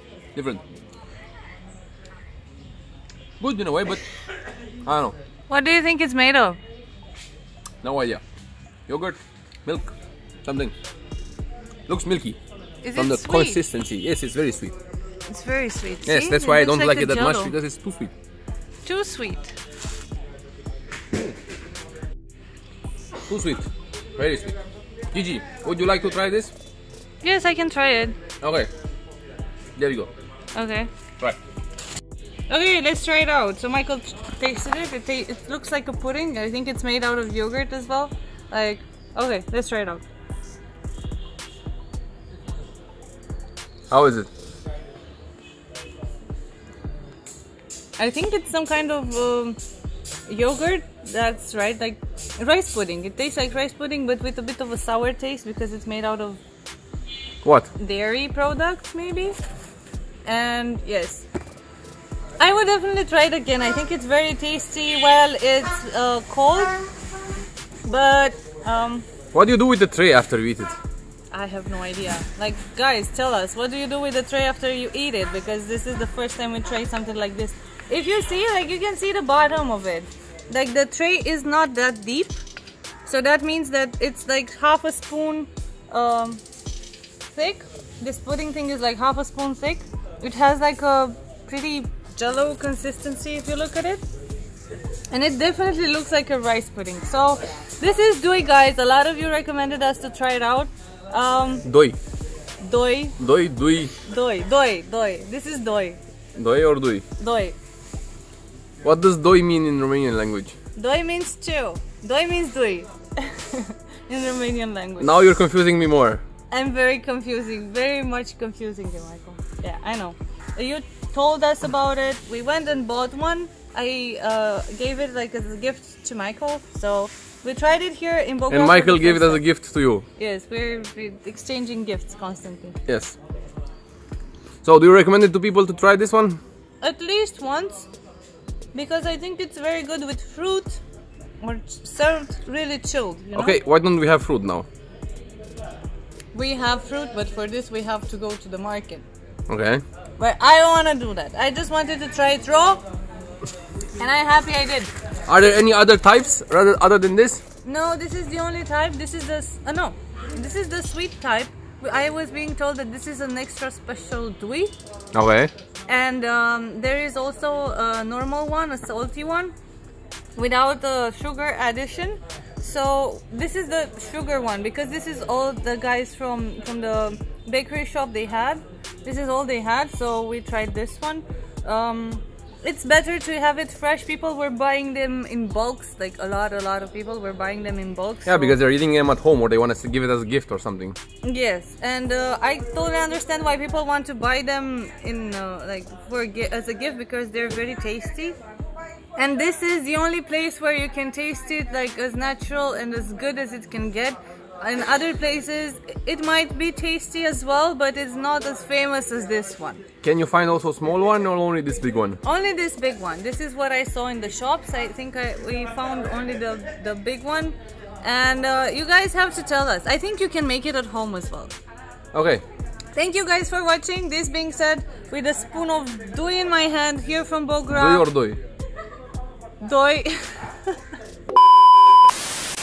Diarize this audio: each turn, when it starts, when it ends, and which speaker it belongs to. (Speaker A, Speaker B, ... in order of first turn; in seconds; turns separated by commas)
Speaker A: 0.3-0.6, Speaker A: 3.4-4.0, Speaker A: 4.8-5.2, Speaker B: 5.5-6.6, Speaker A: 7.8-8.2, Speaker A: 8.9-9.9, Speaker A: 10.4-10.7, Speaker A: 11.9-12.4, Speaker B: 12.8-13.6, Speaker A: 12.9-14.7, Speaker B: 15.3-17.5, Speaker A: 16.1-18.1, Speaker B: 18.8-19.5, Speaker A: 23.3-24.6, Speaker A: 25.1-26.5, Speaker B: 27.2-28.2, Speaker A: 28.4-28.7, Speaker A: 29.8-30.1, Speaker B: 30.5-30.9, Speaker B: 32.5-40.0, Speaker A: 43.9-44.3, Speaker B: 48.0-49.6, Speaker B: 50.3-56.4, Speaker A: 57.4-57.7, Speaker B: 57.8-59.4, Speaker B: 60.2-61.2, Speaker B: 62.4-66.8, Speaker B: 67.8-69.0, Speaker A: 69.3-70.7, Speaker B: 71.3-82.4, Speaker B: 83.0-86.4, Speaker B: 87.3-94.0, Speaker B: 95.1-101.7, Speaker A: 101.7-102.0, Speaker B: 102.6-103.2, Speaker A: 103.2-103.9, Speaker B: 104.0-106.0, Speaker A: 106.3-107.0, Speaker B: 107.2-107.5, Speaker A: 108.8-110.5, Speaker B: 110.8-115.2, Speaker A: 115.0-116.2, Speaker B: 116.5-129.4, Speaker A: 128.5-130.1, Speaker B: 130.2-132.8, Speaker A: 132.9-133.2, Speaker A: 134.6-136.4, Speaker B: 136.8-137.9, Speaker B: 138.7-140.8, Speaker B: 141.4-143.6, Speaker A: 143.3-144.7, Speaker B: 146.3-149.0, Speaker A: 149.5-149.8, Speaker B: 150.2-152.8, Speaker B: 154.0-154.9, Speaker A: 155.3-157.4, Speaker B: 157.6-164.7, Speaker A: 165.1-165.5, Speaker B: 165.9-169.5, Speaker B: 170.3-188.6, Speaker A: 188.2-190.9, Speaker B: 191.2-198.4, Speaker B: 199.2-209.8, Speaker A: 210.0-212.2, Speaker B: 212.2-221.5, Speaker A: 222.1-222.4, Speaker B: 222.9-228.1, Speaker A: 227.7-228.4, Speaker B: 229.6-230.8